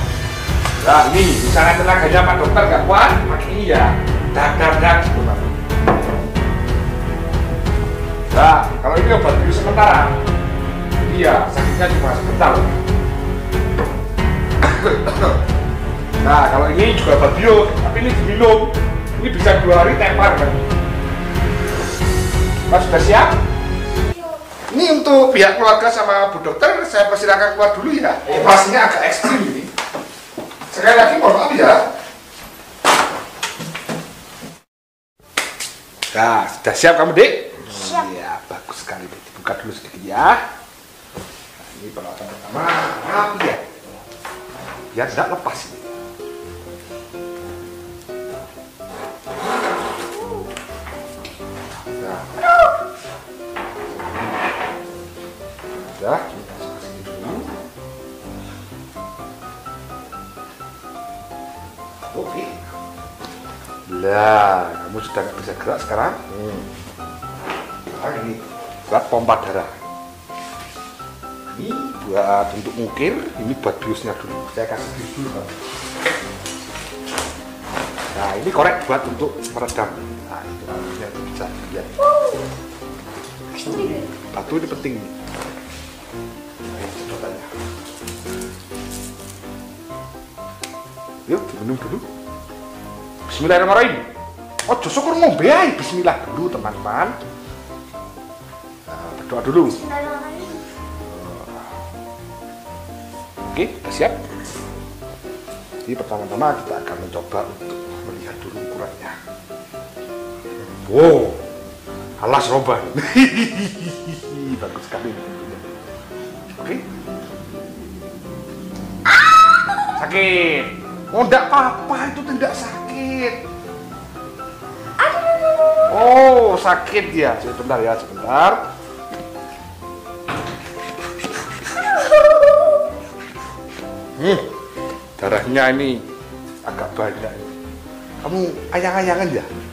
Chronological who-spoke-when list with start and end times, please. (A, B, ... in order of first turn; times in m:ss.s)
0:00.8-0:05.5 A
0:08.3-0:10.2 A
0:11.0-0:12.8 A
0:14.6-0:15.4 A
0:16.2-0:20.6 A
0:22.7-0:23.4 A
0:24.7-0:29.7 A
0:30.7-0:31.9 A
0:36.1-0:40.4 A
0:37.8-0:38.0 B
0:41.6-0:43.6 A
0:44.9-0:45.9 A
0:52.0-0:52.3 A
0:56.0-0:57.5 A
1:02.1-1:02.7 A
1:03.9-1:06.7 A
1:07.9-1:09.8 A
1:11.5-1:15.5 A
1:18.1-1:21.9 A
1:22.1-1:22.4 B
1:23.6-1:24.0 B
1:24.2-1:25.1 A
1:26.7-1:27.5 A
1:31.3-1:32.0 A
1:33.3-1:34.0 A
1:34.7-1:37.2 A
1:38.9-1:39.8 A
1:39.6-1:40.6 B
1:41.1-1:41.8 A
1:43.5-1:44.2 A
1:45.9-1:49.2 A
1:50.6-1:51.4 A
1:52.2-1:55.7 A
1:56.6-1:56.8 A
1:59.9-2:03.4 A
2:05.1-2:05.8 B
2:05.9-2:08.6 A
2:12.1-2:12.6 B
2:14.2-2:14.5 A
2:15.2-2:16.0 A
2:16.6-2:17.5 A
2:18.2-2:19.5 A